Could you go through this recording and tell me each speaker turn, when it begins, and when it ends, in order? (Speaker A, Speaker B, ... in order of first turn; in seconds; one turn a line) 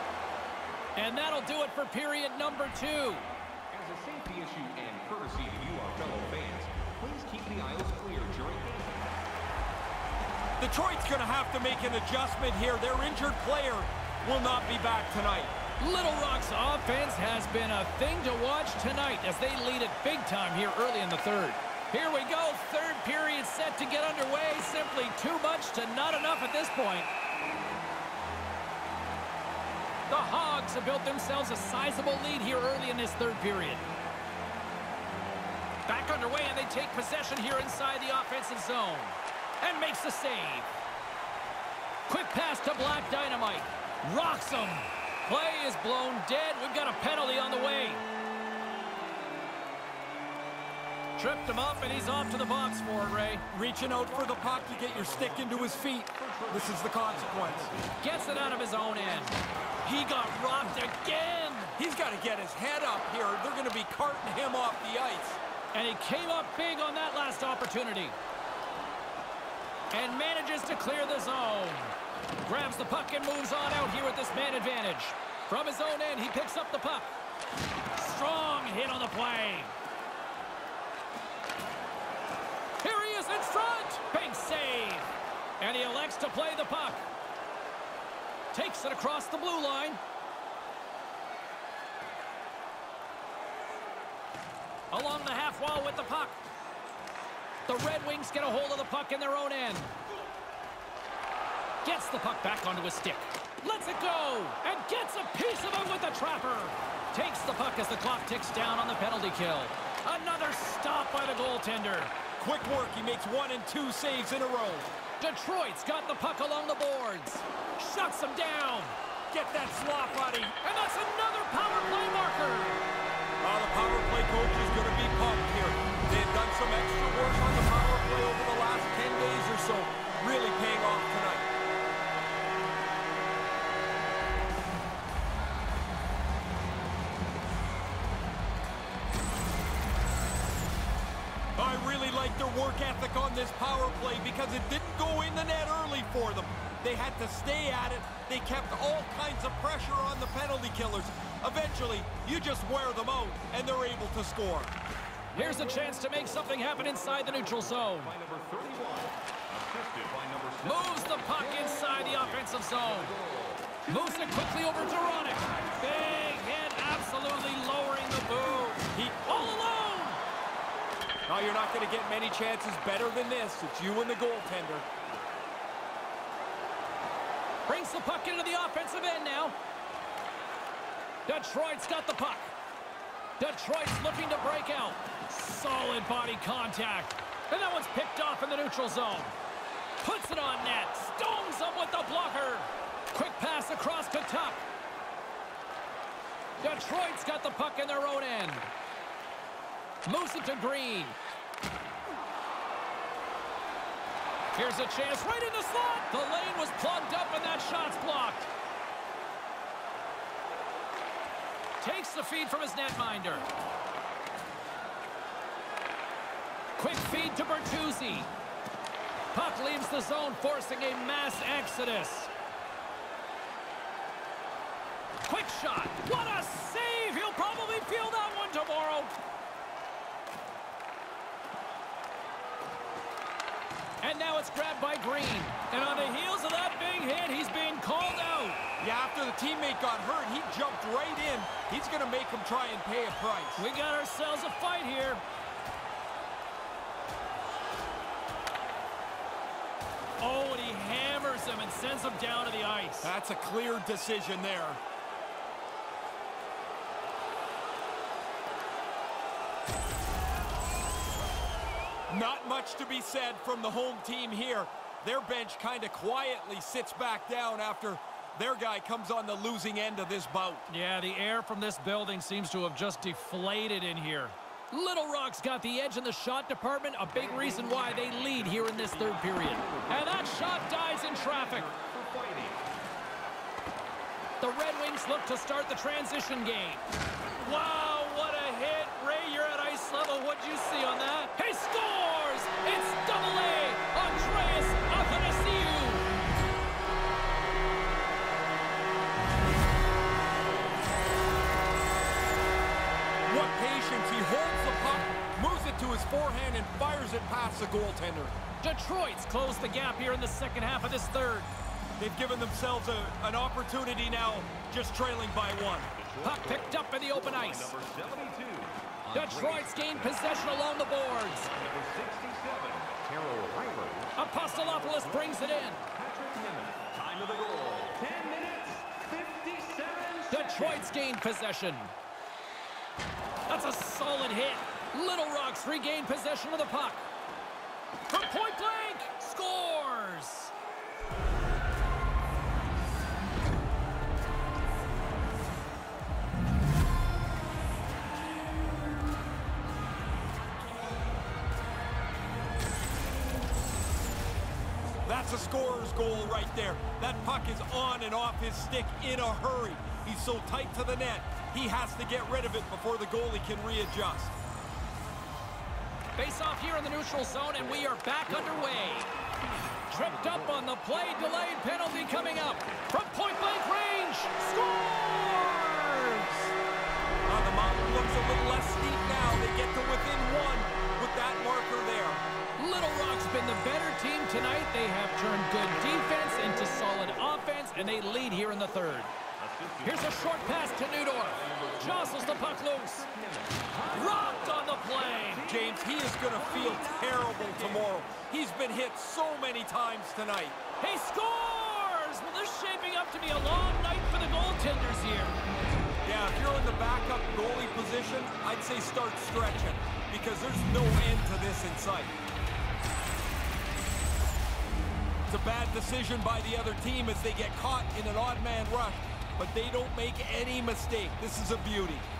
Speaker A: 0.9-3.3
Speaker B: 3.7-9.1
Speaker C: 10.6-15.5
Speaker A: 15.8-27.1
Speaker A: 30.1-33.9
Speaker A: 35.9-40.7
Speaker A: 42.1-48.0
Speaker A: 51.2-53.4
Speaker C: 53.5-57.7
Speaker B: 54.0-59.4
Speaker A: 58.0-61.8
Speaker C: 61.8-65.4
Speaker A: 65.7-68.2
Speaker A: 69.9-77.1
Speaker A: 78.0-79.7
Speaker A: 82.8-85.0
Speaker A: 85.6-87.0
Speaker A: 88.5-90.0
Speaker A: 94.9-96.4
Speaker A: 97.7-99.9
Speaker A: 101.8-112.1
Speaker C: 112.4-114.9
Speaker A: 115.2-118.9
Speaker C: 119.3-120.5
Speaker A: 120.5-122.8
Speaker C: 123.4-131.5
Speaker C: 141.6-154.7
Speaker A: 155.3-158.1
Speaker B: 155.4-166.3
Speaker A: 160.6-163.2
Speaker A: 163.9-170.2
Speaker C: 168.9-169.5
Speaker C: 171.3-174.8
Speaker A: 177.7-179.6
Speaker A: 181.3-182.5
Speaker A: 183.4-189.3
Speaker A: 190.0-194.6
Speaker A: 196.6-198.7
Speaker A: 200.1-201.2
Speaker A: 204.5-208.5
Speaker A: 211.8-213.4
Speaker A: 216.8-218.3
Speaker A: 219.3-222.3
Speaker A: 225.2-229.1
Speaker A: 234.0-238.6
Speaker C: 238.8-243.6
Speaker A: 243.6-245.2
Speaker A: 250.2-253.1
Speaker C: 253.0-254.8
Speaker C: 262.1-270.7
Speaker A: 270.7-281.7
Speaker B: 277.1-282.6
Speaker A: 284.4-286.8
Speaker A: 287.4-296.1
Speaker C: 303.2-308.3
Speaker A: 308.6-311.5
Speaker C: 312.0-315.9
Speaker B: 316.0-320.4
Speaker A: 316.2-317.7
Speaker A: 319.1-321.5
Speaker B: 321.3-330.9
Speaker A: 324.1-325.8
Speaker A: 330.3-331.9
Speaker A: 333.5-337.1
Speaker A: 338.1-340.5
Speaker C: 355.1-364.3
Speaker A: 366.2-369.1
Speaker B: 367.8-372.9
Speaker A: 369.9-376.5
Speaker C: 377.3-382.2
Speaker A: 382.6-389.1
Speaker B: 386.1-398.1
Speaker A: 389.8-393.1
Speaker A: 393.9-395.5
Speaker C: 395.4-400.6
Speaker A: 400.8-405.4
Speaker C: 406.0-412.1
Speaker C: 415.3-422.1